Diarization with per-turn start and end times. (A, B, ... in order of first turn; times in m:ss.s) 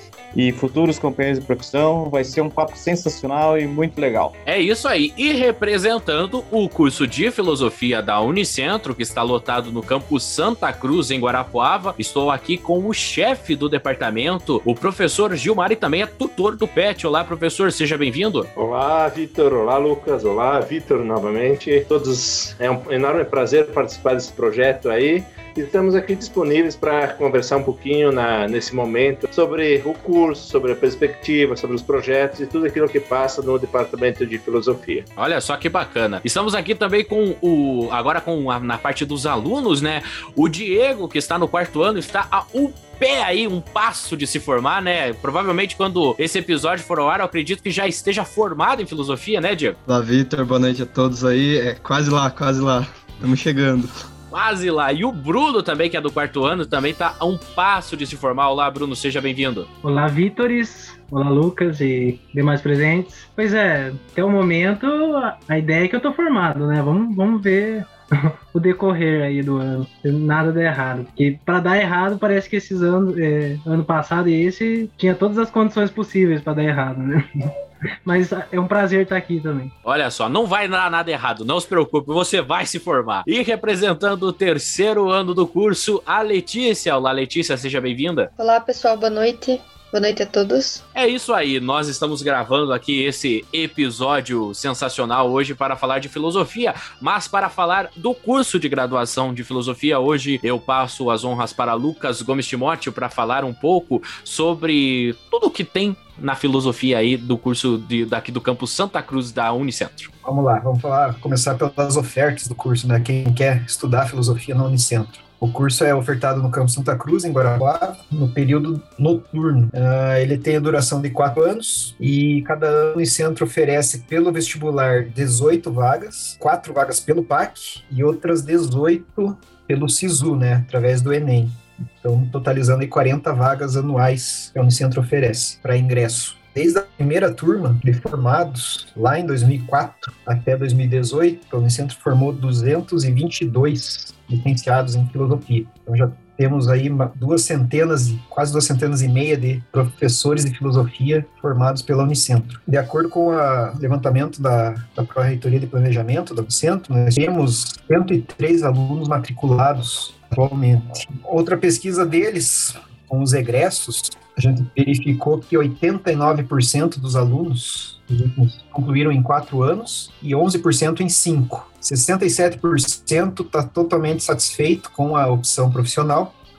0:00.3-0:04.4 A
0:04.4-0:18.5 B
0:18.6-0:35.1 C
0:35.2-0:49.8 B
0:49.9-0:53.9 D
0:54.3-0:59.7 B
0:59.8-1:17.5 E
1:18.0-1:19.7 E
1:19.8-1:28.3 B
1:28.4-1:30.8 F
1:30.9-1:50.1 B
1:50.2-2:56.3 G